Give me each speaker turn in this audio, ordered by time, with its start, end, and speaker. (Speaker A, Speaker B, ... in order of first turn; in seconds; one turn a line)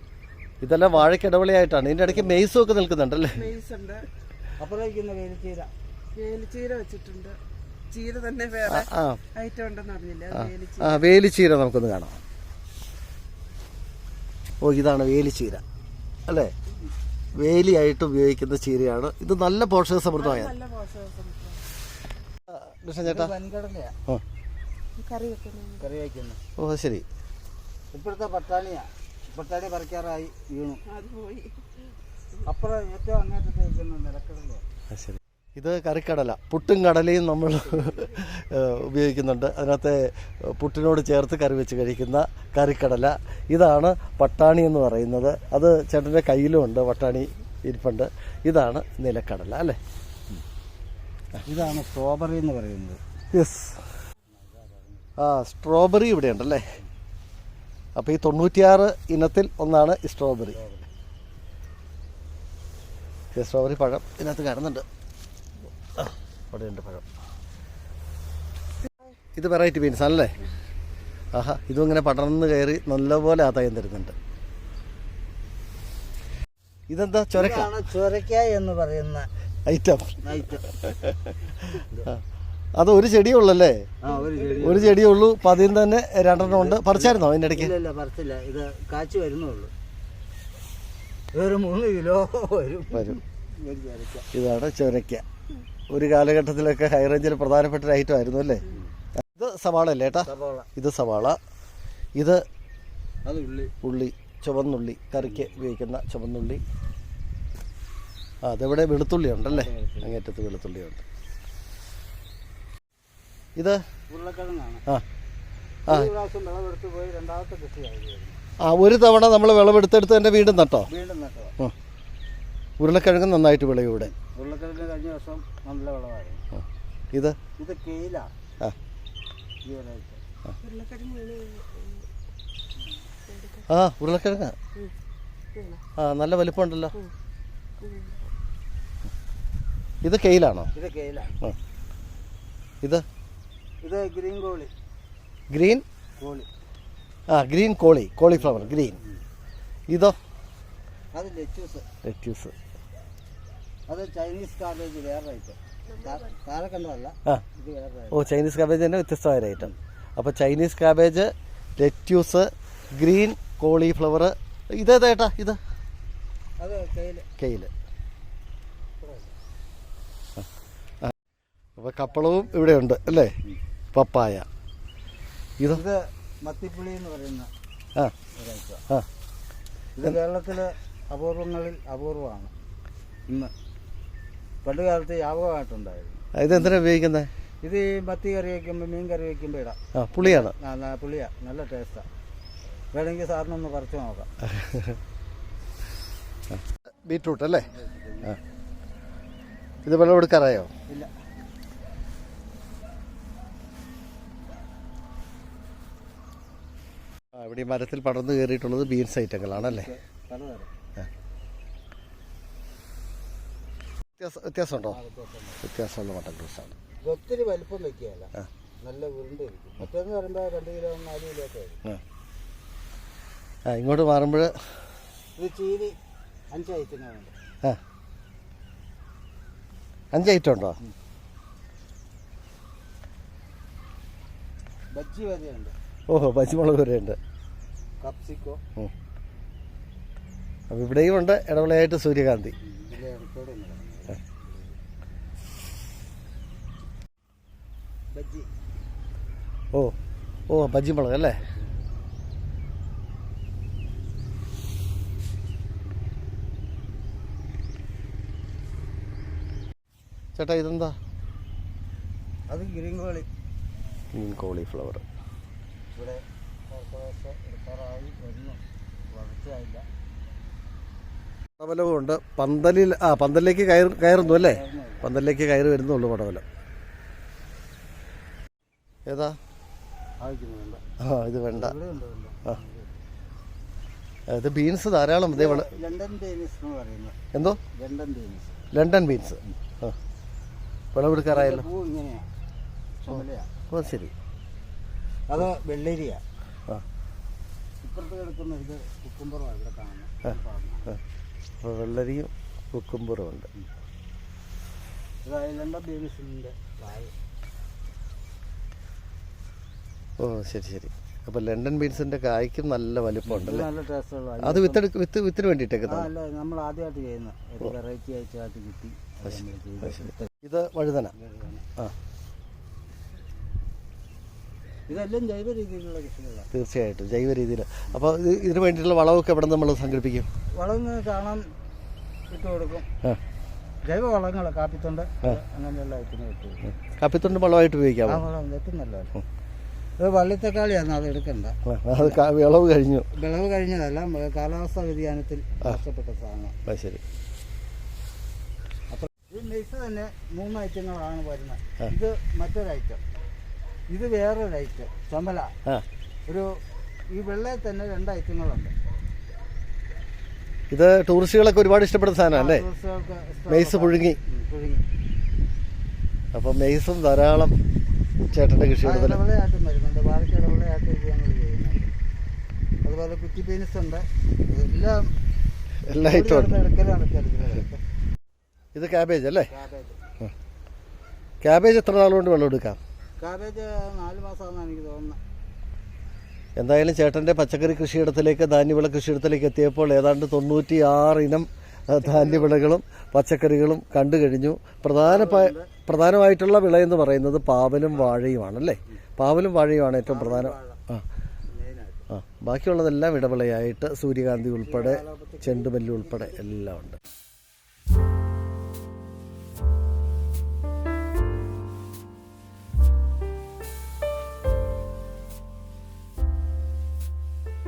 Speaker A: 0.6-3.5
Speaker B: 3.3-4.1
Speaker C: 4.6-5.7
Speaker B: 6.1-7.4
Speaker B: 7.9-11.1
Speaker A: 8.7-9.2
Speaker A: 10.3-12.2
Speaker A: 14.6-15.6
Speaker A: 16.3-16.5
Speaker A: 17.3-20.5
Speaker B: 20.1-21.6
Speaker A: 22.5-23.3
Speaker C: 23.0-23.9
Speaker B: 25.0-25.8
Speaker C: 25.8-26.4
Speaker A: 26.6-27.0
Speaker C: 27.9-30.8
Speaker B: 30.9-32.4
Speaker C: 32.4-34.6
Speaker A: 34.9-49.8
Speaker C: 51.5-53.0
Speaker A: 53.3-53.8
Speaker C: 54.3-55.1
Speaker A: 55.2-56.6
Speaker A: 58.0-60.6
Speaker C: 60.5-60.9
Speaker A: 63.3-64.8
Speaker A: 66.0-67.0
Speaker A: 69.3-70.5
Speaker A: 71.3-74.1
Speaker A: 76.9-77.7
Speaker C: 77.3-79.3
Speaker A: 79.7-80.2
Speaker C: 80.2-80.6
Speaker A: 80.8-81.3
Speaker C: 81.7-82.1
Speaker A: 82.8-83.8
Speaker C: 84.0-85.0
Speaker A: 84.6-87.7
Speaker C: 86.4-89.7
Speaker C: 91.3-94.3
Speaker A: 92.9-93.2
Speaker A: 94.3-95.2
Speaker A: 95.9-98.7
Speaker A: 99.2-101.4
Speaker C: 100.2-100.7
Speaker A: 102.2-102.4
Speaker C: 103.2-103.7
Speaker A: 103.8-106.6
Speaker C: 105.2-105.6
Speaker A: 108.4-111.0
Speaker C: 109.5-110.1
Speaker C: 114.1-114.8
Speaker C: 115.9-118.4
Speaker A: 118.6-120.9
Speaker C: 120.9-121.6
Speaker A: 122.8-124.1
Speaker C: 124.1-126.4
Speaker C: 127.6-128.3
Speaker C: 129.6-130.2
Speaker B: 130.6-132.1
Speaker B: 133.3-133.7
Speaker A: 133.7-134.6
Speaker B: 135.5-135.8
Speaker A: 136.0-136.9
Speaker B: 137.8-138.3
Speaker A: 140.0-140.7
Speaker C: 140.7-141.3
Speaker C: 143.8-144.7
Speaker A: 145.5-145.8
Speaker C: 146.2-146.5
Speaker A: 147.3-149.0
Speaker A: 149.9-150.2
Speaker C: 151.1-151.8
Speaker A: 152.0-152.5
Speaker C: 153.9-158.3
Speaker A: 158.1-165.6
Speaker C: 166.6-167.3
Speaker A: 167.4-167.7
Speaker C: 169.0-169.3
Speaker A: 171.8-173.3
Speaker A: 173.9-174.4
Speaker C: 175.7-177.5
Speaker C: 178.3-178.8
Speaker C: 180.0-182.5
Speaker C: 184.6-186.6
Speaker A: 186.3-187.3
Speaker C: 187.6-192.1
Speaker A: 189.9-190.5
Speaker C: 192.9-194.3
Speaker A: 194.5-194.9
Speaker A: 196.6-197.7
Speaker C: 197.7-198.4
Speaker A: 199.8-200.7
Speaker A: 207.3-209.9
Speaker C: 209.5-210.7
Speaker A: 214.2-215.0
Speaker C: 214.9-215.6
Speaker A: 215.6-216.7
Speaker C: 217.0-218.3
Speaker C: 218.8-221.8
Speaker A: 223.7-224.5
Speaker C: 225.3-225.9
Speaker C: 226.5-227.3
Speaker A: 230.1-230.8
Speaker C: 234.9-235.7
Speaker A: 236.1-237.2
Speaker C: 238.0-238.6
Speaker A: 240.7-242.5
Speaker C: 242.6-244.8
Speaker C: 248.1-248.5
Speaker A: 250.5-251.4
Speaker A: 260.4-260.9
Speaker C: 262.5-263.3
Speaker A: 264.1-265.0
Speaker C: 265.9-269.9
Speaker A: 271.6-276.4
Speaker C: 274.1-275.1
Speaker A: 279.1-279.4
Speaker C: 280.2-280.8
Speaker A: 281.0-281.7
Speaker C: 281.5-283.0
Speaker A: 284.3-285.7
Speaker C: 285.3-287.1
Speaker A: 287.3-287.6
Speaker C: 287.7-288.6
Speaker A: 288.7-289.9
Speaker A: 290.9-291.6
Speaker C: 291.2-292.3
Speaker C: 293.0-293.5
Speaker A: 293.7-294.1
Speaker C: 295.3-296.2
Speaker C: 297.8-300.9
Speaker A: 301.6-303.5
Speaker C: 305.2-307.1
Speaker A: 310.2-313.7
Speaker C: 313.2-314.8
Speaker A: 314.4-316.1
Speaker C: 315.9-320.3
Speaker A: 319.9-321.1
Speaker C: 321.1-321.7
Speaker C: 324.9-326.5
Speaker A: 326.5-330.3
Speaker C: 330.5-331.4
Speaker C: 332.3-332.9
Speaker C: 333.8-336.7
Speaker A: 336.9-338.2
Speaker C: 338.1-339.1
Speaker C: 340.0-342.2
Speaker A: 341.7-343.1
Speaker C: 343.1-346.6
Speaker A: 346.7-347.0
Speaker C: 348.9-353.0
Speaker C: 353.9-355.5
Speaker C: 356.3-356.6
Speaker C: 357.1-358.7
Speaker A: 360.7-362.7
Speaker C: 362.3-364.8
Speaker A: 363.5-364.2
Speaker A: 366.3-367.5
Speaker A: 368.3-369.2
Speaker C: 368.8-371.9
Speaker C: 372.8-375.1
Speaker A: 375.9-376.6
Speaker C: 376.0-377.8
Speaker A: 378.7-379.5
Speaker C: 379.5-380.0
Speaker A: 381.4-382.8
Speaker C: 383.2-385.2
Speaker A: 386.6-401.0
Speaker C: 392.0-392.5
Speaker C: 394.9-395.7
Speaker C: 400.1-400.8
Speaker C: 401.5-402.1
Speaker A: 402.1-407.0
Speaker C: 404.6-406.4